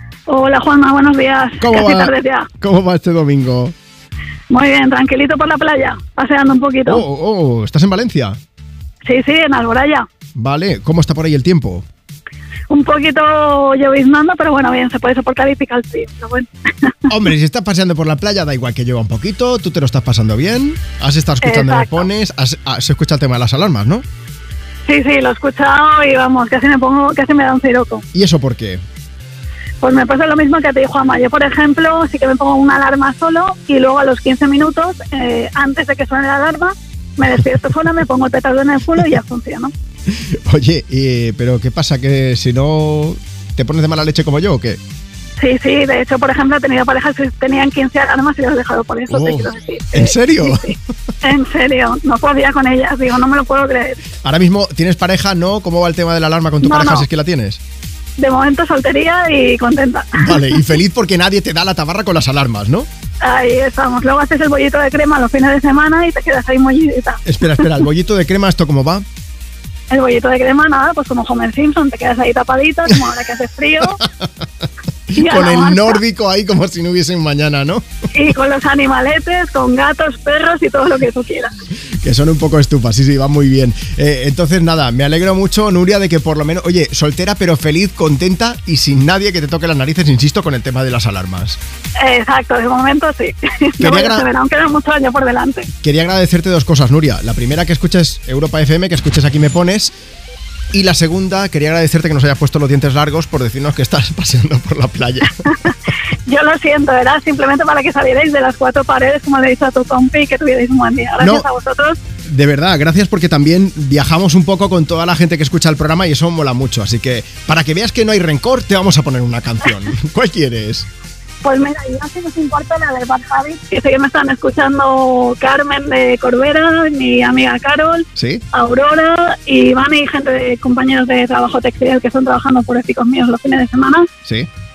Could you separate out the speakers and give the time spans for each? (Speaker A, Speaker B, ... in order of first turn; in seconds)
Speaker A: 0.3-2.5, 4.5-7.0, 9.1-10.1, 12.7-17.1, 21.4-22.0, 24.9-28.0, 29.8-39.7, 45.4-54.0, 56.6-57.1, 58.2-60.6, 63.2-67.8, 69.9-74.0, 75.2-76.0, 78.1-81.6, 92.0-95.7, 106.3-112.0, 121.4-134.1
Speaker B: 1.6-3.7, 6.8-8.4, 10.3-11.8, 17.1-24.0, 28.1-28.8, 40.1-44.8, 49.1-50.7, 54.2-57.6, 60.1-62.9, 67.2-69.0, 75.1-77.8, 82.0-91.6, 93.8-94.2, 95.8-99.9, 100.7-105.7, 111.2-111.5, 112.3-120.9, 128.2-128.4